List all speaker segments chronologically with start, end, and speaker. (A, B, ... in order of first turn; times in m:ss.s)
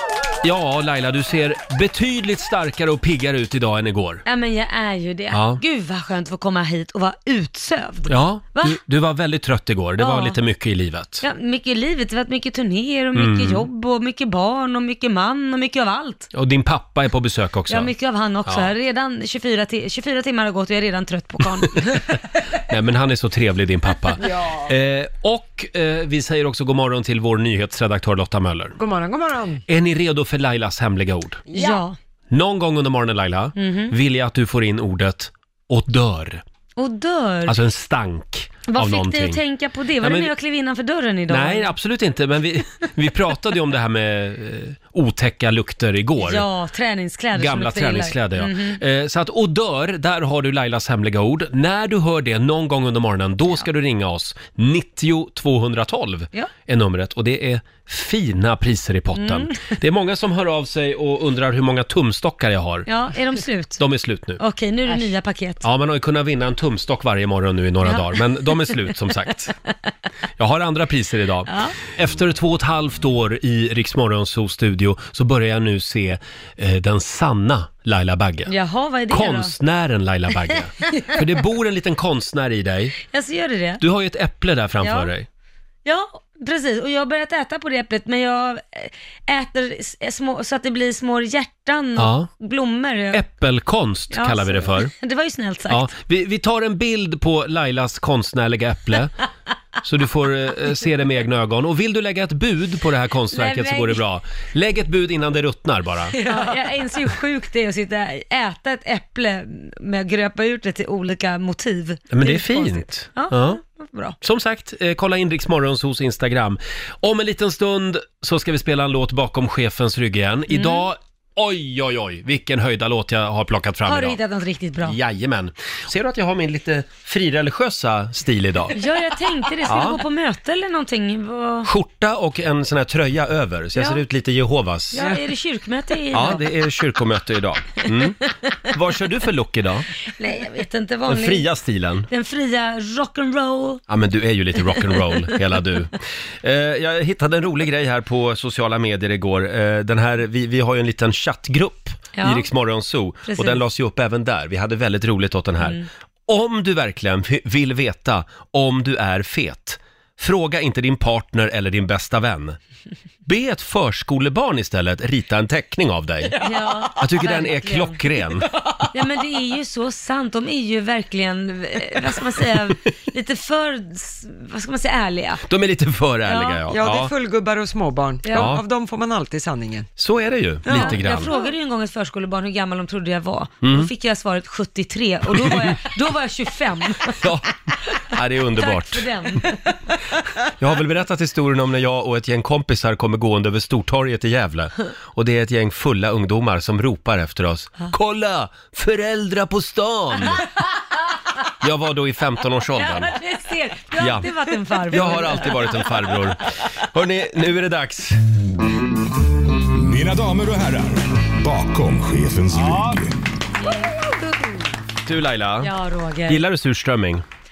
0:00.4-0:04.2 A
0:04.2-0:08.8 B
0:05.3-0:05.6 A
0:08.1-0:11.2 A
0:10.0-0:10.4 B
0:11.2-0:16.3 B
0:13.1-0:13.6 A
0:16.3-0:17.9 A
0:17.7-0:22.0 B
0:18.5-0:18.7 A
0:21.7-0:28.8 A
0:24.2-0:24.7 C
0:28.8-0:29.6 C
0:29.7-0:31.4 A
0:31.5-0:31.8 C
0:31.5-0:32.0 B
0:32.3-0:36.4 A
0:33.6-0:33.9 B
0:36.8-0:37.6 B
0:37.5-0:39.4 A
0:38.7-0:41.7 B
0:40.0-0:40.3 A
0:41.3-0:46.4 A
0:46.2-0:48.8 B
0:47.4-1:02.9 A
0:59.1-0:59.7 B
1:02.9-1:03.8 B
1:03.8-1:04.4 A
1:04.4-1:05.6 B
1:05.6-1:09.5 A
1:07.8-1:08.9 B
1:10.4-1:18.5 A
1:11.5-1:11.8 B
1:18.5-1:19.5 B
1:19.1-1:23.0 A
1:20.8-1:21.2 B
1:23.1-1:23.8 B
1:23.8-1:25.3 A
1:24.8-1:25.1 B
1:25.8-1:33.2 B
1:32.0-1:32.3 A
1:33.1-1:34.9 A
1:34.1-1:35.9 B
1:35.7-1:39.2 A
1:39.8-1:46.2 A
1:43.3-1:44.0 B
1:46.1-1:46.6 C
1:46.2-1:54.2 B
1:52.1-1:53.6 A
1:54.2-2:04.2 A
2:00.5-2:00.9 B
2:03.9-2:05.0 B
2:04.8-2:08.8 A
2:08.7-2:11.7 B
2:09.7-2:10.0 A
2:11.6-2:15.0 A
2:13.8-2:14.0 B
2:14.9-2:16.4 B
2:14.9-2:15.2 C
2:16.1-2:19.9 A
2:20.2-2:21.5 B
2:21.1-2:22.1 A
2:22.1-2:23.8 B
2:23.9-2:42.6 A
2:32.2-2:32.5 B
2:33.3-2:33.6 B
2:43.3-2:46.4 A
2:46.4-2:46.9 C
2:46.4-2:48.0 B
2:47.0-2:48.5 A
2:48.6-2:48.9 C
2:48.9-2:55.4 B
2:55.5-2:57.1 A
2:56.3-2:56.6 B
2:56.7-2:59.9 C
2:58.2-2:58.5 B
2:58.4-2:58.6 A
3:00.0-3:01.3 A
3:00.6-3:01.5 C
3:00.7-3:07.2 B
3:03.6-3:03.9 A
3:05.3-3:05.8 A
3:07.1-3:09.1 A
3:08.5-3:09.6 B
3:10.4-3:20.4 A
3:21.6-3:23.1 A
3:22.7-3:25.7 B
3:24.0-3:24.3 A
3:24.9-3:28.2 A
3:29.7-3:33.2 D
3:32.5-3:33.0 A
3:33.6-3:34.1 B
3:35.0-3:35.7 A
3:35.6-3:36.4 B
3:36.3-3:37.2 A